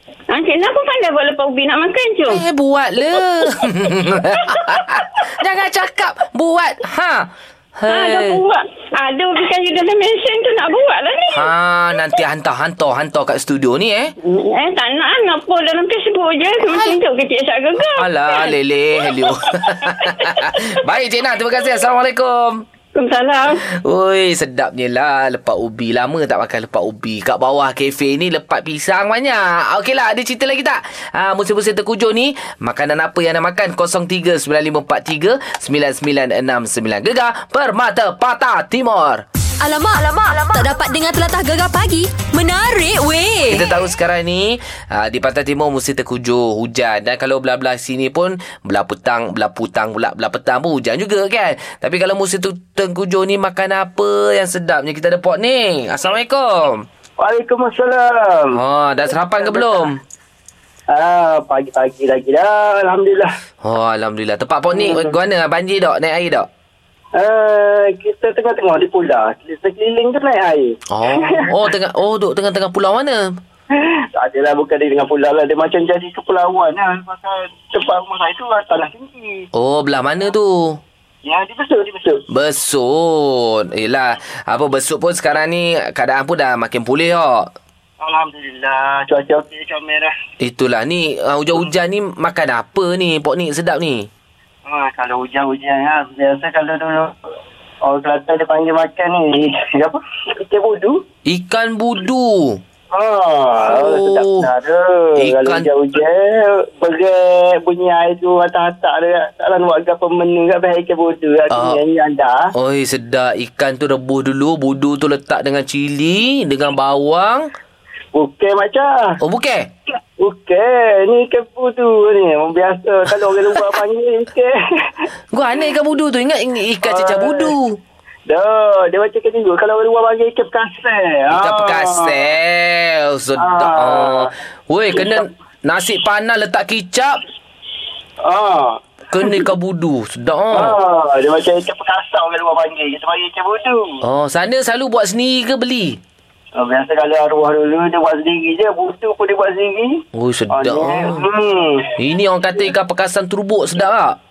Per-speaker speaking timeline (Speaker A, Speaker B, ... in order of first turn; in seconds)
Speaker A: 0.3-2.4, 7.9-11.5, 14.2-18.5, 19.9-20.4, 22.9-23.6
Speaker B: 2.2-8.4, 11.3-14.1, 16.6-17.0, 17.9-22.6, 23.7-39.2, 43.5-56.9, 58.5-60.0, 63.6-66.5, 70.9-73.4, 79.5-80.8, 82.3-87.5, 90.4-94.1, 101.2-102.6, 103.6-104.5, 105.2-105.7, 111.5-111.8, 112.5-117.5, 119.2-119.7, 123.3-123.8, 125.3-127.8, 131.3-137.2, 139.1-140.8, 144.0-146.0, 150.1-151.3, 152.0-154.2
Speaker C: 39.6-43.6
Speaker D: 57.2-58.5, 59.4-59.9, 60.9-63.3, 64.7-65.1, 67.2-70.7, 74.2-79.5, 81.2-82.2, 88.0-90.1, 94.7-97.1, 97.8-101.0, 102.9-112.4, 118.1-119.0, 120.2-125.0, 126.9-127.4, 128.3-132.0, 133.4-134.2, 138.3-138.8, 140.6-143.9, 146.6-150.0, 150.5-151.9